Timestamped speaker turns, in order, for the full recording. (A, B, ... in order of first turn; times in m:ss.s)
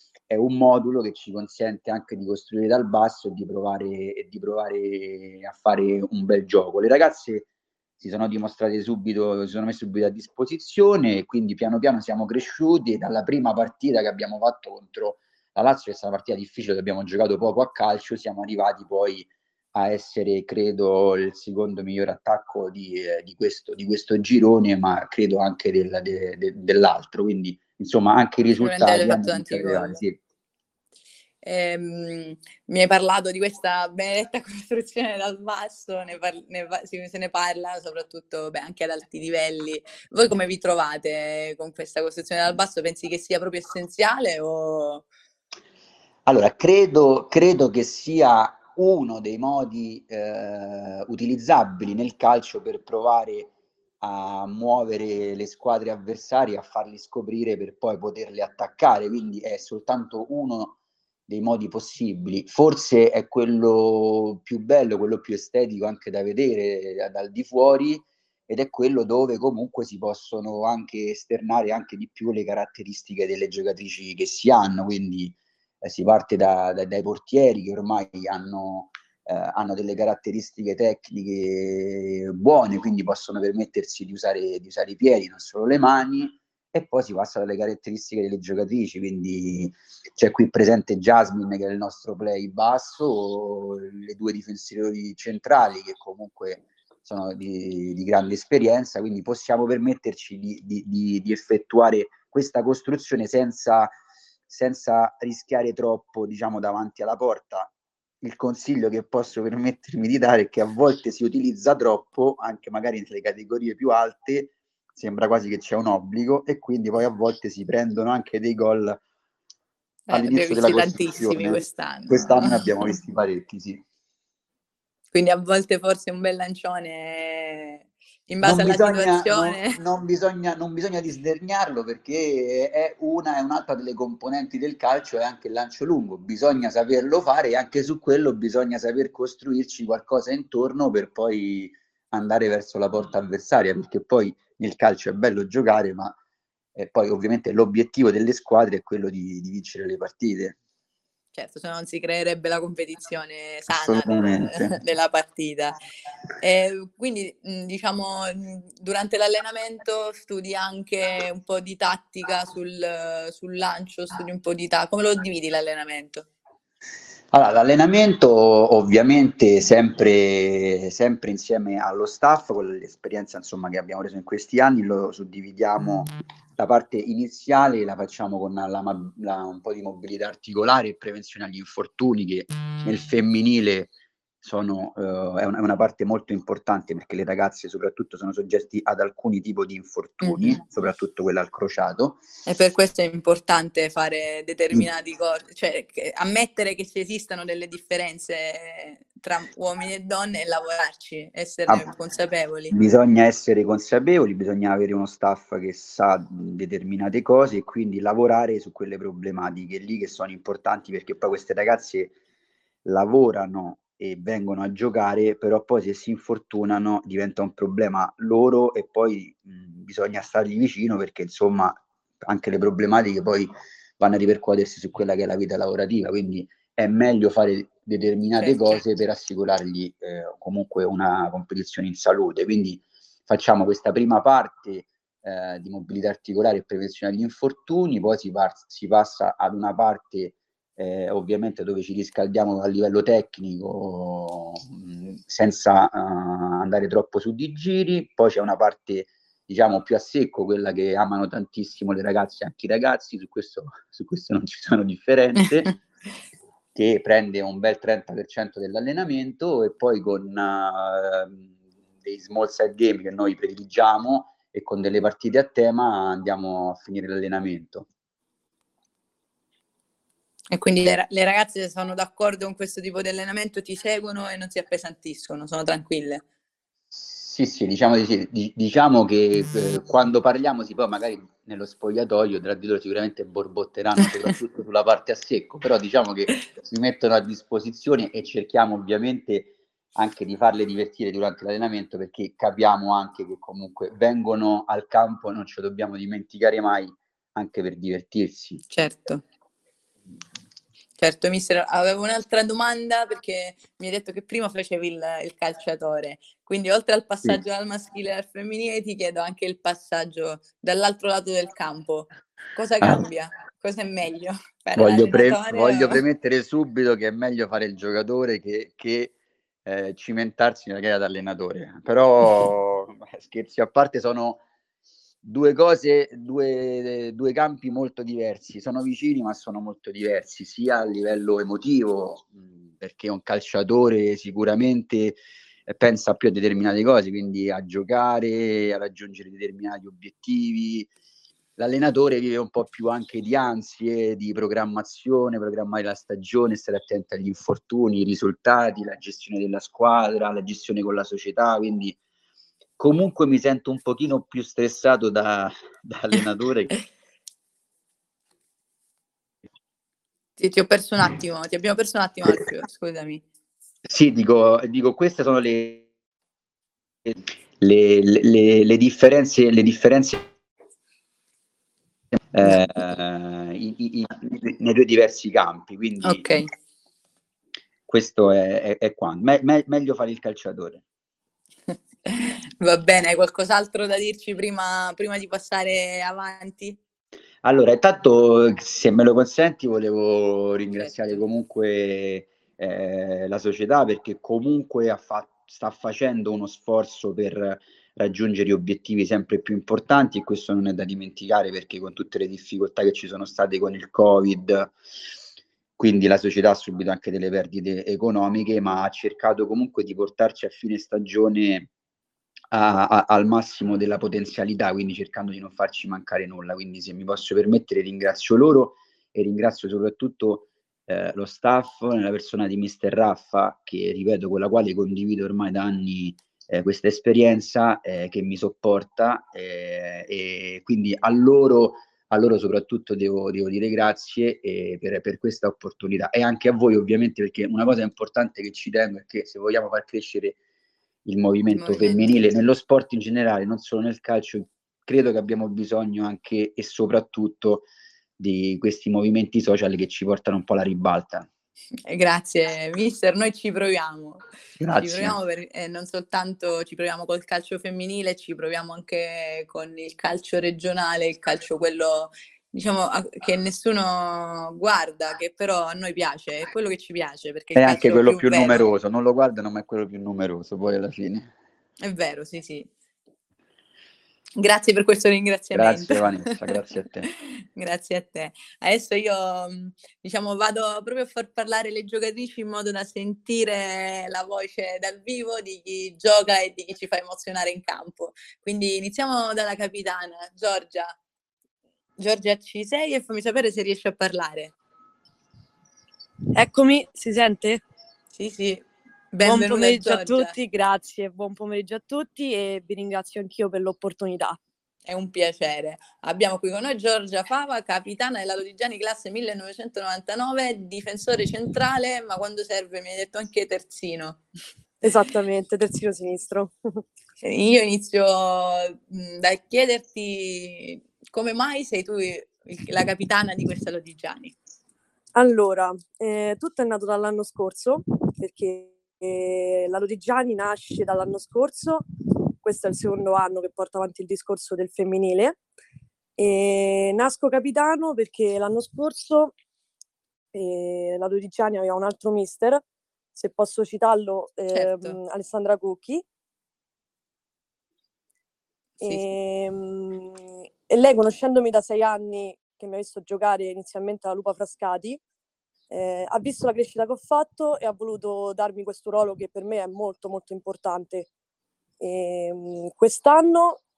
0:00.3-0:07.5 A
0:08.0-0:30.2 A
0:28.6-0:30.0 B
0:31.4-0:45.1 B
0:46.3-1:43.9 A
1:44.5-1:47.7 A
1:48.2-1:59.0 A
2:00.1-2:02.7 B
2:00.1-2:03.8 A
2:05.1-2:09.8 B
2:08.4-2:26.2 A
2:26.8-2:30.6 A
2:31.3-2:35.8 B
2:33.7-2:34.8 A
2:36.4-2:46.3 B
2:47.3-3:03.9 A
3:04.4-3:12.2 A
3:10.2-3:10.6 B
3:12.5-3:22.7 B
3:22.7-3:32.1 A
3:32.8-4:15.8 A
3:48.4-3:48.8 B
4:16.8-4:27.9 A
4:30.5-4:36.2 B
4:36.9-4:58.6 A
4:58.7-4:59.2 B
5:01.0-5:16.0 B
5:14.8-5:19.1 A
5:19.6-5:24.4 A
5:25.2-5:40.9 A
5:41.6-5:52.0 A
5:52.8-5:56.7 A
6:00.4-6:03.2 B
6:03.8-6:05.9 A
6:07.1-6:10.3 A
6:12.3-6:16.3 A
6:16.0-6:16.5 B
6:17.9-6:20.8 A
6:22.1-6:26.8 B
6:27.4-6:44.7 A
6:30.8-6:31.2 B
6:45.8-6:51.7 A
6:52.5-7:20.4 A
7:21.0-7:27.7 A
7:21.5-7:22.2 B
7:28.2-7:31.3 A
7:31.9-7:34.2 B
7:34.6-7:35.2 A
7:34.8-7:48.6 B
7:47.6-7:51.3 A
7:51.8-7:52.7 B
7:54.4-7:56.3 B
7:55.5-7:57.1 A
7:57.6-8:10.9 B
8:12.0-8:14.5 B
8:16.4-8:17.6 C
8:18.2-8:20.3 B
8:19.2-8:24.4 C
8:24.9-8:34.2 B
8:34.8-8:36.6 C
8:37.2-8:44.4 B
8:45.2-8:51.8 C
8:52.4-8:55.4 C
8:56.2-8:59.3 C
9:00.3-9:02.6 C
9:03.2-9:06.0 C
9:04.5-9:05.0 B
9:08.8-9:15.0 C
9:15.7-9:21.1 C
9:21.8-9:23.6 C